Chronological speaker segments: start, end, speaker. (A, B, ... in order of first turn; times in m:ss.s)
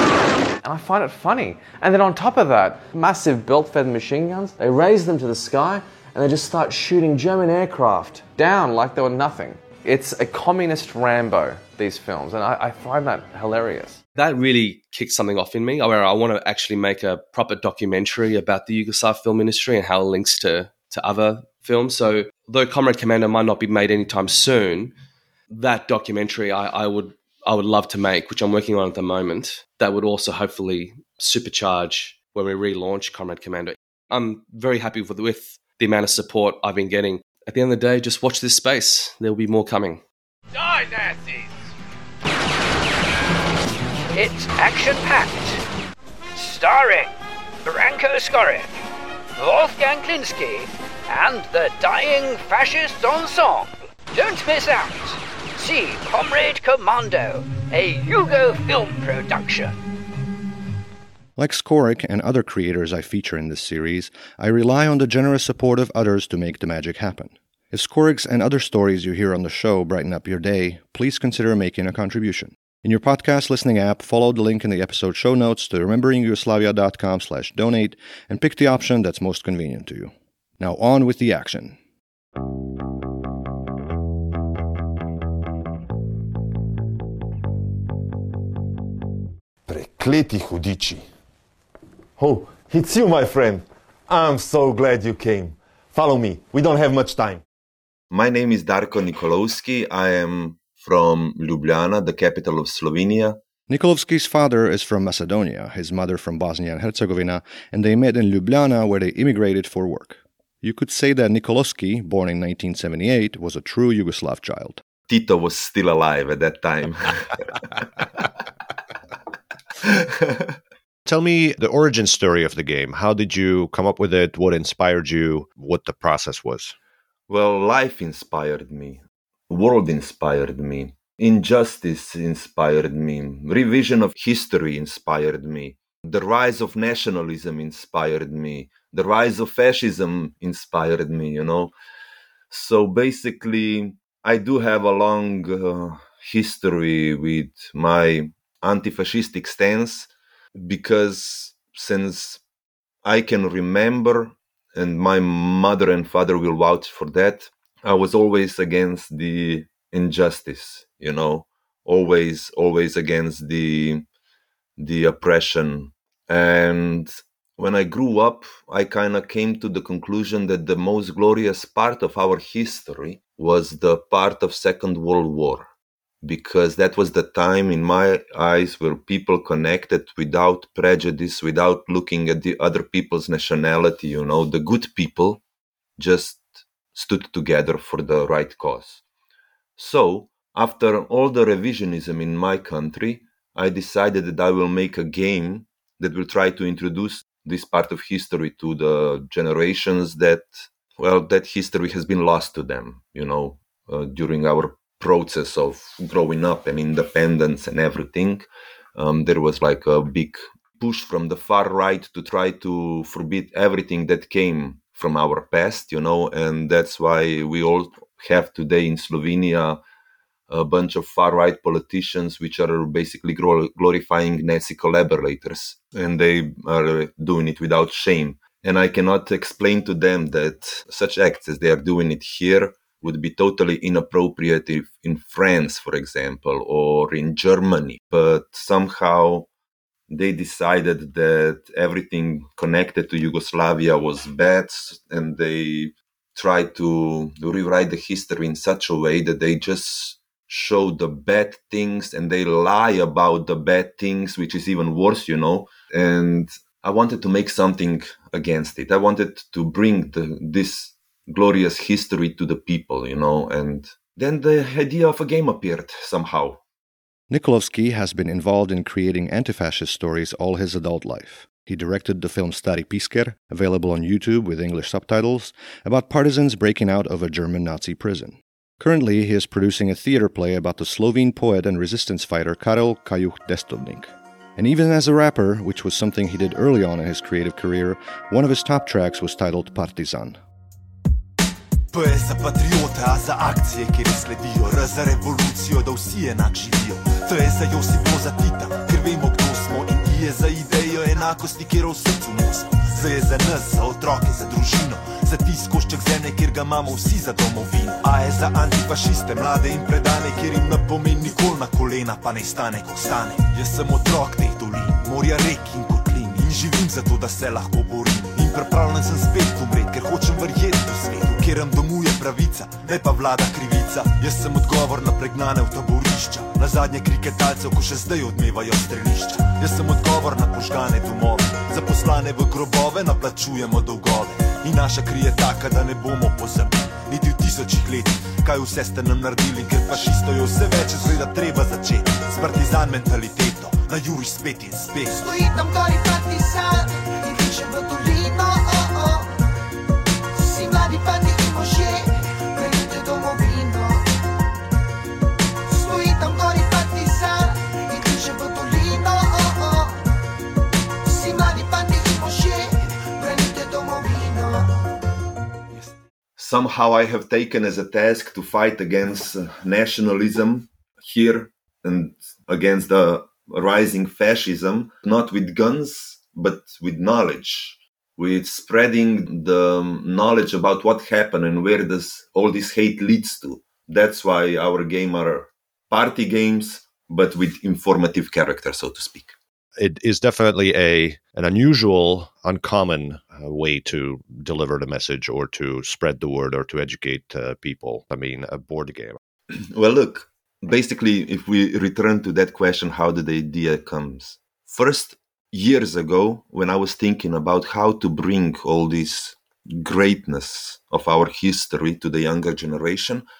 0:00.6-0:14.0 A
0:14.2-0:24.9 B
0:25.5-0:40.0 B
0:40.5-0:41.5 C
0:44.1-0:45.6 C
0:46.4-0:47.1 C
0:47.6-0:48.8 C
0:49.4-0:59.8 C
1:01.4-1:21.8 D
1:29.7-1:31.0 E
1:32.2-1:37.4 E
1:38.1-1:43.4 F
1:43.7-1:54.8 D
1:55.1-1:57.5 F
1:59.8-2:00.5 F
2:01.0-2:06.7 G
2:07.3-2:21.7 F
2:22.5-2:32.4 F
2:33.0-2:44.0 F
2:44.8-3:05.4 F
3:06.0-3:09.0 F
3:09.8-3:39.8 F
3:40.5-3:59.5 F
4:00.1-4:26.6 F
4:27.3-4:50.4 D
4:51.9-5:45.2 H
5:45.1-5:49.4 I
5:50.3-5:54.1 I
5:55.7-6:00.0 I
6:01.0-6:04.8 I
6:06.4-6:29.3 F
6:29.8-6:39.2 G
6:39.5-6:53.2 F